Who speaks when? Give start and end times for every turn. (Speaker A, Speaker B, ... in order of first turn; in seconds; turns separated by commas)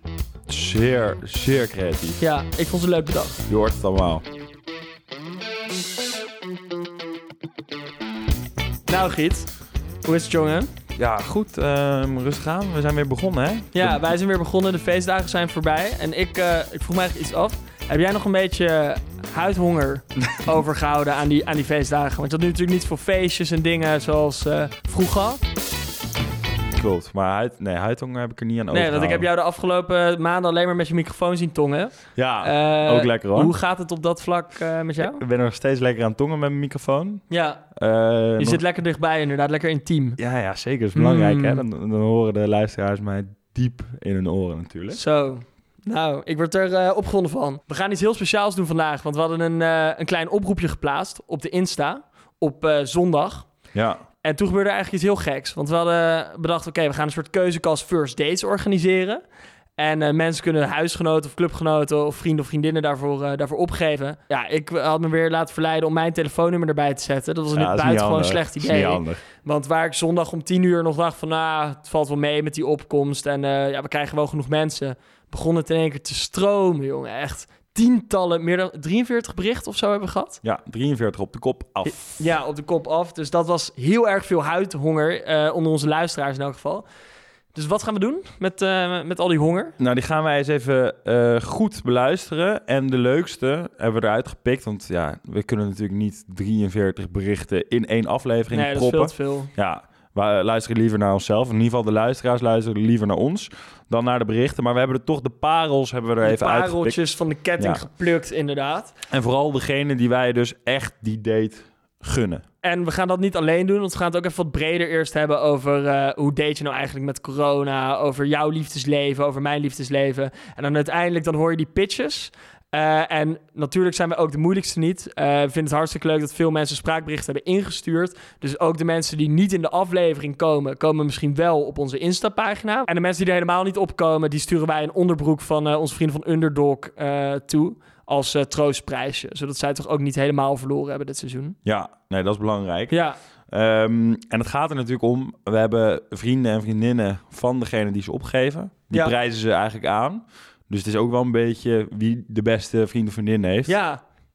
Speaker A: 0.5-2.2, Speaker B: 2.2-3.4, Speaker A: 3.5-4.2, Speaker B: 8.9-9.5, Speaker B: 10.1-10.7, Speaker A: 11.0-14.1, Speaker B: 13.7-25.4, Speaker A: 26.7-29.3, Speaker B: 28.7-35.2, Speaker A: 32.2-33.5, Speaker A: 35.0-38.6, Speaker B: 37.3-37.6, Speaker B: 38.4-40.2, Speaker A: 40.2-45.0, Speaker B: 41.0-41.6, Speaker B: 44.9-53.5, Speaker A: 53.7-54.0, Speaker B: 54.2-59.2, Speaker B: 59.8-80.4, Speaker A: 67.5-69.2, Speaker A: 80.4-82.2, Speaker B: 81.8-86.8, Speaker B: 87.5-89.8, Speaker A: 89.8-107.0, Speaker B: 98.5-99.5, Speaker B: 106.2-108.9, Speaker A: 107.6-107.8, Speaker A: 109.1-112.4, Speaker B: 112.6-141.6, Speaker A: 141.7-143.0, Speaker B: 142.9-143.2, Speaker A: 143.5-153.7, Speaker B: 153.7-154.0